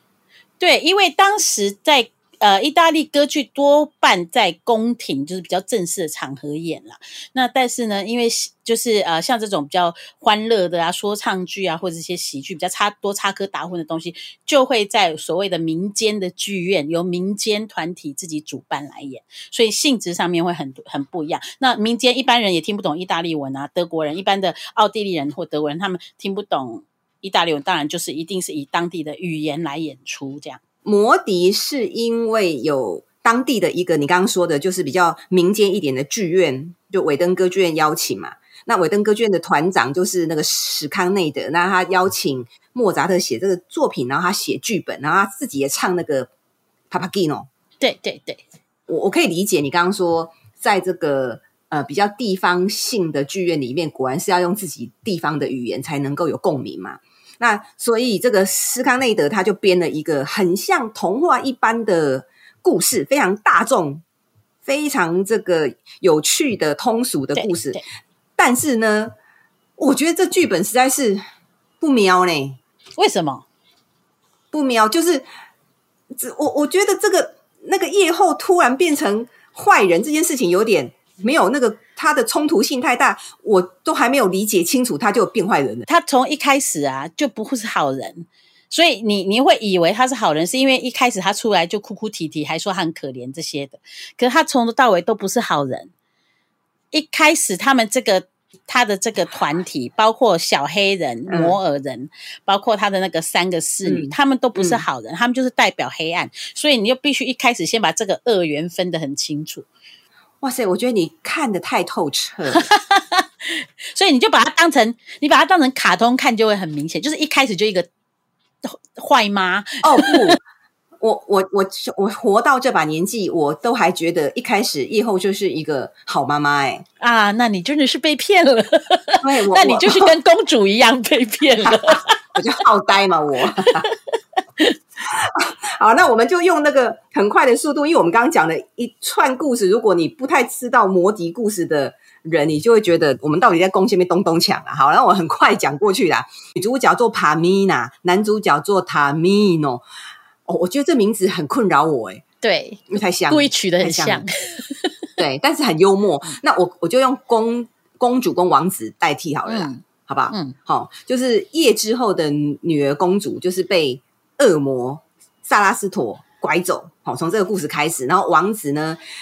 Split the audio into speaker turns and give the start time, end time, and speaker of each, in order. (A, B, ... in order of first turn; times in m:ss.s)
0:00.6-0:30.6 A
0:30.8-0:46.3 B
0:46.9-0:47.5 B
0:47.8-0:48.4 A
0:48.9-1:04.0 B
1:04.6-1:07.8 B
1:07.3-1:07.8 A
1:08.4-1:09.1 B
1:09.8-1:11.2 B
1:11.8-1:12.6 B
1:13.0-1:13.4 A
1:14.5-1:15.2 B
1:16.1-1:25.9 B
1:25.9-1:35.9 A
1:36.9-1:49.7 A
1:41.3-1:41.6 B
1:43.8-1:44.8 B
1:50.4-1:52.7 B
1:52.5-1:57.9 A
1:58.6-2:00.4 A
1:59.8-2:00.4 B
2:01.0-2:06.8 B
2:07.0-2:12.2 A
2:09.2-2:10.1 B
2:11.6-2:13.9 B
2:13.6-2:13.9 A
2:15.0-2:29.8 B
2:30.5-2:32.2 B
2:32.4-2:35.1 A
2:32.9-2:34.2 B
2:35.2-2:49.0 B
2:39.5-2:40.6 A